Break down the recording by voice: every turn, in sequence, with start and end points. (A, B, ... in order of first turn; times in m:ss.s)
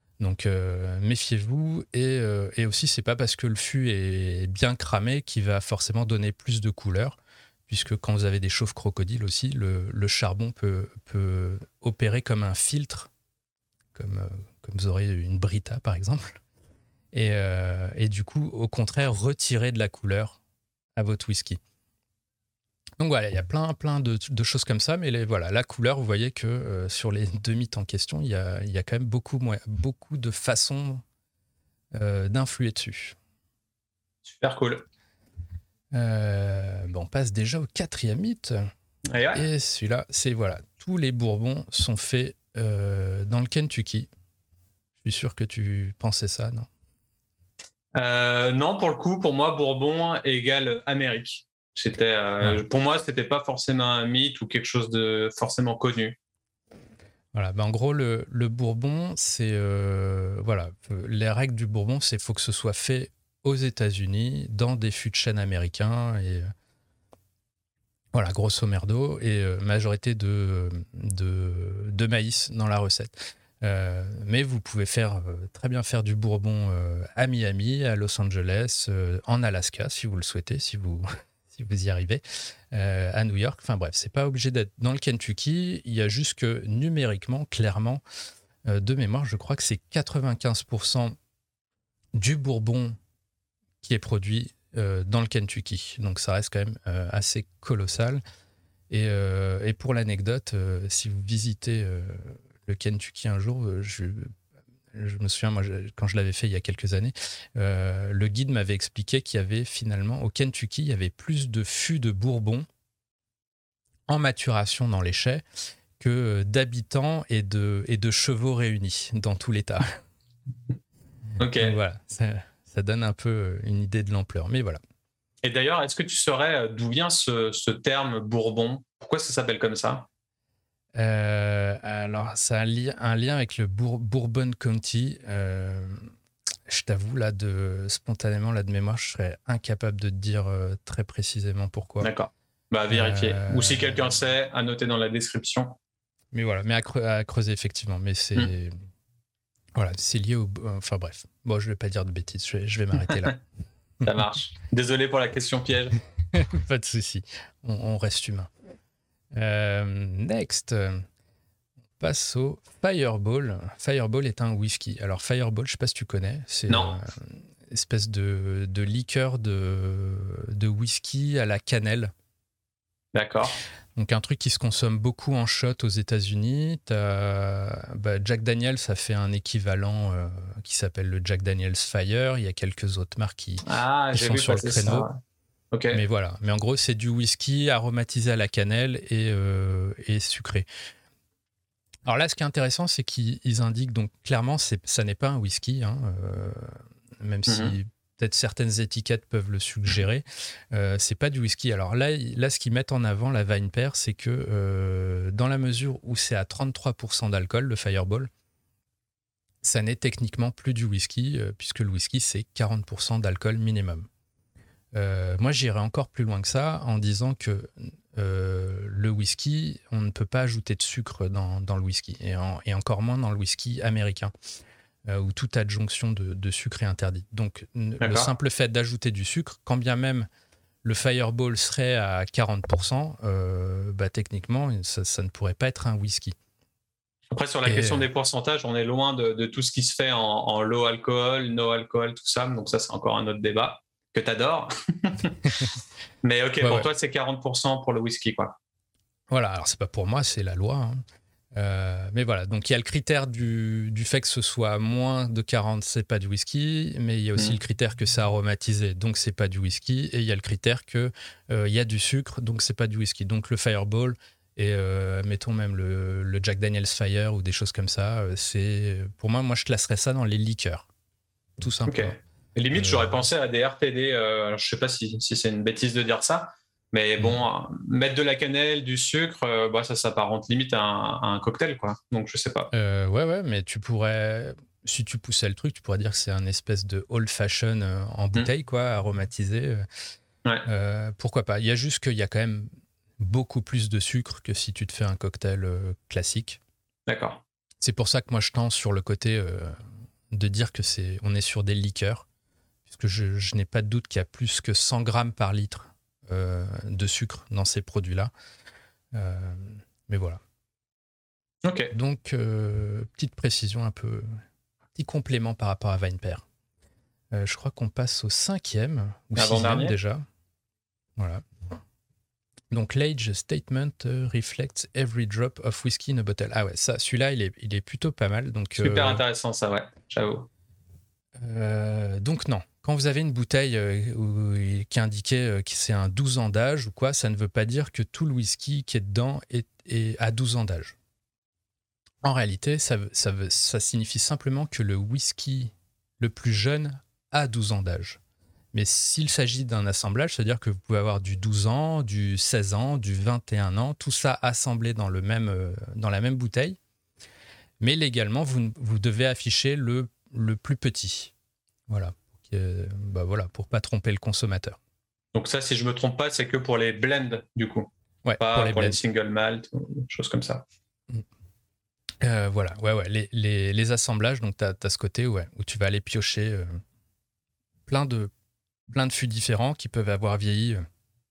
0:00.2-0:07.2 A
0:07.7-0:13.1 A
0:13.9-0:16.4 A
0:17.1-0:20.4 A
0:21.0-0:21.6 A
0:23.0-0:31.0 A
0:31.9-0:33.2 A
0:34.2-0:34.8 B
0:35.9-0:38.6 A
0:39.1-0:39.5 B
0:39.3-0:44.1 A
0:45.0-0:46.7 A
0:47.9-0:56.2 B
0:57.3-1:06.4 A
1:08.1-1:28.0 A
1:28.6-1:31.2 A
1:32.1-1:33.0 A
1:33.8-1:38.2 A
1:38.9-1:44.3 A
1:44.9-1:52.6 A
1:54.1-1:55.4 A
1:56.0-2:00.0 A
2:01.4-2:01.8 B
2:01.6-2:04.8 A
2:05.4-2:10.0 B
2:10.9-2:16.1 A
2:16.7-2:22.1 A
2:22.0-2:25.7 B
2:22.9-2:24.2 A
2:26.3-2:28.7 A
2:29.7-2:33.4 A
2:34.0-2:36.0 B
2:36.3-2:38.5 A
2:39.3-2:41.0 A
2:42.0-2:52.1 A
2:46.7-2:46.9 B
2:53.1-2:53.6 B
2:54.0-3:05.1 A
3:03.6-3:05.2 B
3:05.7-3:06.0 B
3:05.9-3:10.6 A
3:12.0-3:28.3 A
3:17.4-3:17.7 B
3:29.6-3:34.1 A
3:34.9-3:44.3 A
3:45.0-3:50.3 A
3:48.0-3:48.3 B
3:50.8-3:56.4 A
3:57.3-4:08.5 B
3:57.6-3:58.0 A
4:06.6-4:06.9 A
4:09.3-4:11.0 A
4:11.5-4:30.9 A
4:31.6-4:32.2 A
4:31.8-4:42.7 B
4:32.7-4:33.2 A
4:42.7-4:49.8 A
4:50.6-4:56.6 A
4:57.1-4:57.4 B
4:57.8-4:59.8 A
5:00.3-5:02.2 A
5:02.9-5:08.3 A
5:09.1-5:10.4 A
5:11.6-5:11.9 B
5:11.9-5:14.4 A
5:14.9-5:16.4 A
5:17.3-5:20.2 A
5:19.4-5:20.0 B
5:21.2-5:21.4 A
5:22.7-5:29.2 A
5:28.8-5:30.5 B
5:31.4-5:41.0 A
5:42.2-5:48.2 A
5:48.7-5:56.8 A
5:57.8-6:01.3 A
6:01.9-6:04.8 A
6:05.3-6:10.6 B
6:08.2-6:09.0 A
6:12.2-6:16.8 A
6:17.9-6:18.3 A
6:18.9-6:20.8 A